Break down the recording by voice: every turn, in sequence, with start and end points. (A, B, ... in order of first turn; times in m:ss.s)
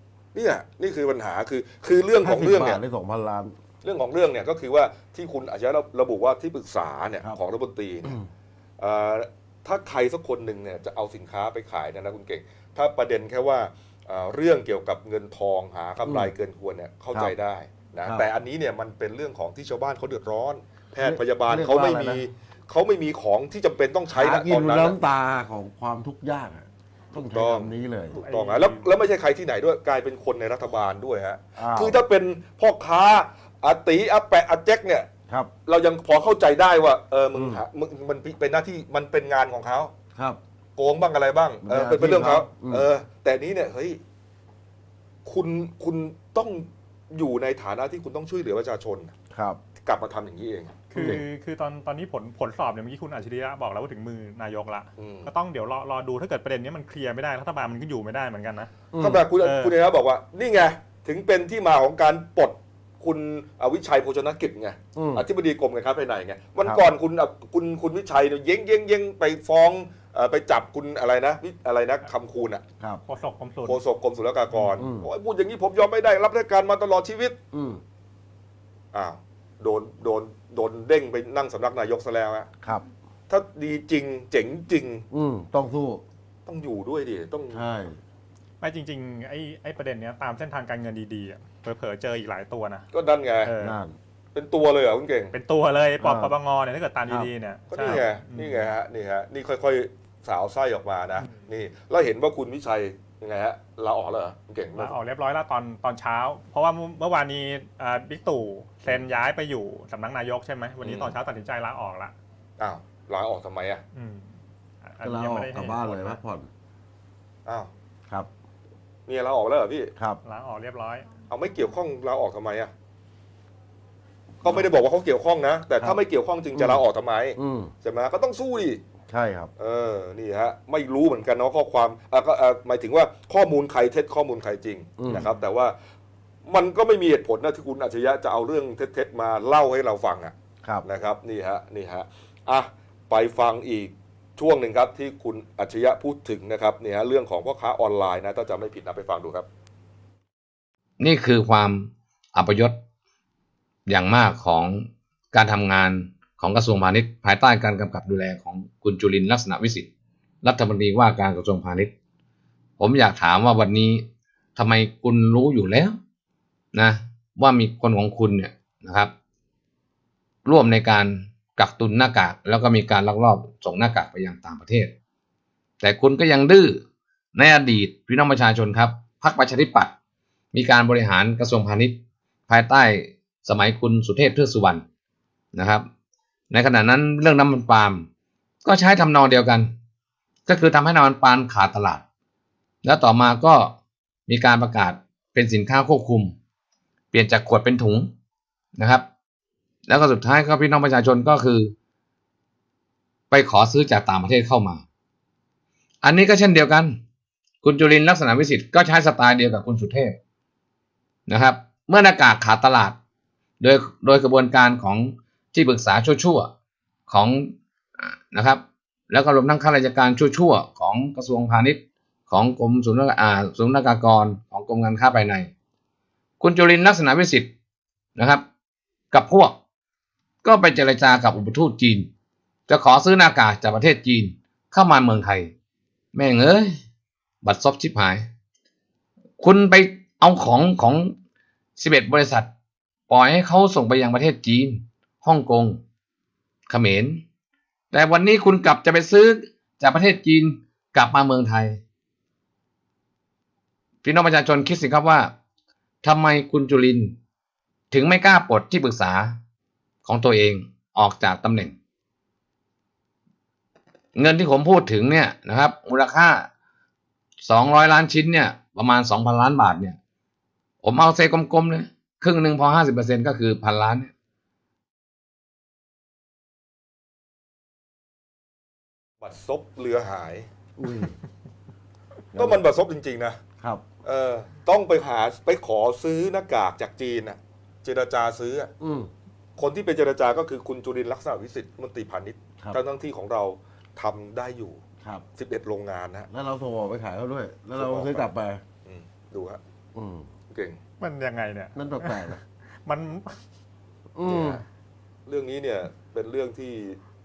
0:00.3-0:02.8 A
0:02.2-0:03.6 B
0:03.8-0:08.2 A
0:08.8-0:25.0 A
0:16.0-0:16.3 B
0:21.0-0:22.2 B
0:24.1-0:28.2 B
0:27.1-0:35.1 A
0:28.1-0:29.0 C
0:31.6-0:32.0 B
0:35.6-0:39.9 A
0:37.3-0:37.6 B
0:40.8-0:44.0 A
0:41.6-0:42.9 B
0:45.2-0:49.1 A
0:49.3-0:49.6 B
0:49.8-0:51.2 A
0:50.9-0:58.7 C
0:55.0-0:55.3 A
0:58.9-0:59.3 B
0:59.0-1:12.6 A
0:59.3-0:59.8 C
1:04.9-1:05.2 B
1:13.0-1:13.8 C
1:13.6-1:17.4 A
1:14.5-1:14.8 C
1:14.8-1:15.1 B
1:17.5-1:17.8 B
1:18.9-1:22.5 A
1:23.3-1:25.0 A
1:25.1-1:26.0 B
1:26.4-1:27.6 A
1:27.5-1:28.0 B
1:28.6-1:32.9 C
1:32.9-1:33.5 A
1:33.4-1:33.8 C
1:33.6-1:34.0 B
1:34.3-1:35.4 A
1:35.3-1:38.7 C
1:36.0-1:36.4 B
1:37.7-1:45.0 A
1:44.8-1:52.1 C
1:50.8-1:51.2 A
1:52.6-1:53.8 A
1:53.9-1:56.2 C
1:55.0-1:56.5 B
1:59.1-1:59.9 A
2:00.0-2:00.2 B
2:00.2-2:01.1 C
2:01.3-2:02.7 A
2:04.4-2:08.8 A
2:06.5-2:06.8 B
2:07.4-2:07.7 B
2:09.1-2:09.5 B
2:09.6-2:15.7 A
2:15.0-2:15.3 B
2:16.4-2:29.5 A
2:31.0-2:32.7 D
2:33.9-2:39.9 D
2:40.4-2:41.9 D
2:42.8-2:45.9 D
2:46.7-2:49.1 D
2:50.4-2:54.9 D
2:55.8-2:56.8 D
2:57.3-2:59.9 D
3:00.5-3:02.0 D
3:02.5-3:04.8 D
3:05.5-3:05.8 D
3:06.5-3:08.0 D
3:08.6-3:09.7 D
3:10.5-3:12.0 D
3:12.8-3:13.7 D
3:14.3-3:16.3 D
3:17.1-3:18.1 D
3:18.8-3:19.0 D
3:19.9-3:21.7 D
3:23.3-3:24.8 D
3:26.0-3:26.9 D
3:27.6-3:30.2 D
3:31.3-3:33.0 D
3:33.6-3:36.5 D
3:37.1-3:41.8 D
3:42.3-3:45.5 D
3:46.4-3:47.5 D
3:48.2-3:48.4 D
3:49.1-3:49.5 D
3:50.4-3:52.1 D
3:52.7-3:55.5 D
3:56.1-3:56.7 D
3:57.4-3:58.2 D
3:59.4-4:01.1 D
4:01.8-4:02.5 D
4:03.1-4:05.8 D
4:06.7-4:07.2 D
4:07.9-4:11.8 D
4:14.0-4:15.3 D
4:16.0-4:17.1 D
4:17.9-4:19.4 D
4:20.0-4:21.7 D
4:24.2-4:26.5 D
4:27.4-4:30.0 D
4:30.8-4:34.1 D
4:39.2-4:40.4 A
4:40.8-4:41.2 B
4:42.3-4:42.6 B
4:42.3-4:43.4 A
4:44.0-4:48.7 A
4:48.8-4:49.1 B
4:49.6-4:54.8 A
4:55.3-4:56.3 A
4:56.3-4:58.6 B
4:57.7-4:58.3 A
4:58.8-4:59.6 A
4:59.9-5:00.3 B
5:00.5-5:00.8 A
5:01.0-5:03.4 C
5:01.7-5:02.4 B
5:04.1-5:04.6 B
5:04.2-5:04.6 A
5:05.2-5:07.0 A